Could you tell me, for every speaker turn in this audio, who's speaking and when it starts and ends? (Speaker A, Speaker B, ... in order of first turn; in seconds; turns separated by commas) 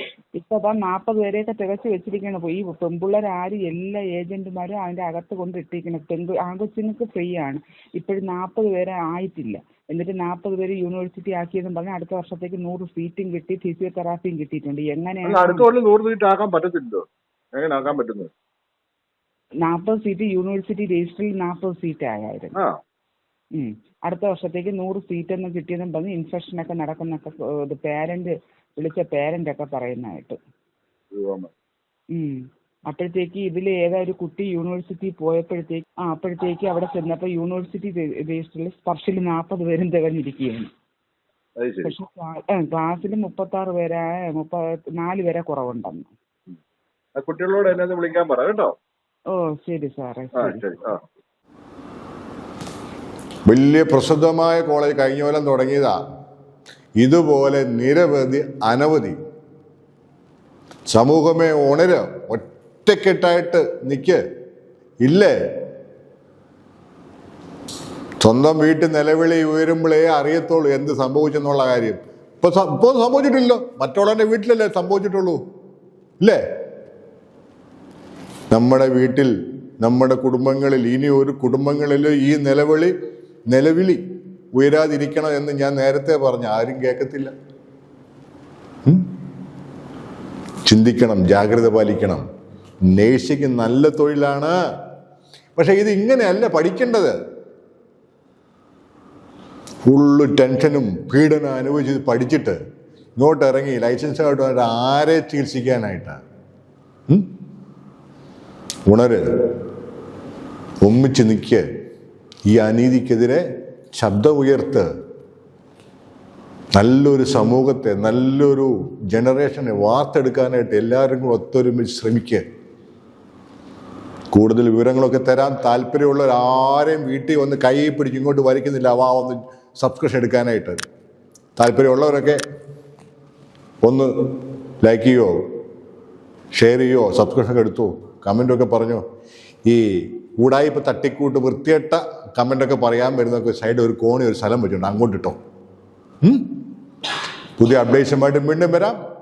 Speaker A: 0.3-15.7, Speaker B: 15.2-18.3, Speaker A: 19.6-22.5, Speaker A: 23.6-30.4, Speaker B: 31.1-31.5, Speaker A: 32.1-40.7, Speaker B: 41.6-41.9, Speaker A: 41.8-46.1, Speaker B: 47.2-48.7, Speaker A: 49.3-50.7, Speaker B: 50.4-51.0, Speaker C: 53.5-56.0, Speaker C: 57.0-59.2, Speaker C: 60.9-64.2, Speaker C: 65.0-65.3, Speaker C: 68.2-75.4, Speaker C: 78.5-82.9, Speaker C: 83.5-84.0, Speaker C: 84.5-87.3, Speaker C: 90.6-92.2, Speaker C: 92.9-94.5, Speaker C: 95.5-97.2, Speaker C: 99.9-102.6, Speaker C: 103.2-106.2, Speaker C: 108.9-109.5, Speaker C: 110.8-111.6, Speaker C: 112.5-114.9, Speaker C: 116.7-122.4, Speaker C: 124.3-130.8, Speaker C: 131.6-132.4, Speaker C: 133.8-135.3, Speaker C: 136.5-139.0, Speaker C: 139.7-145.4, Speaker C: 146.2-146.6, Speaker C: 147.6-149.0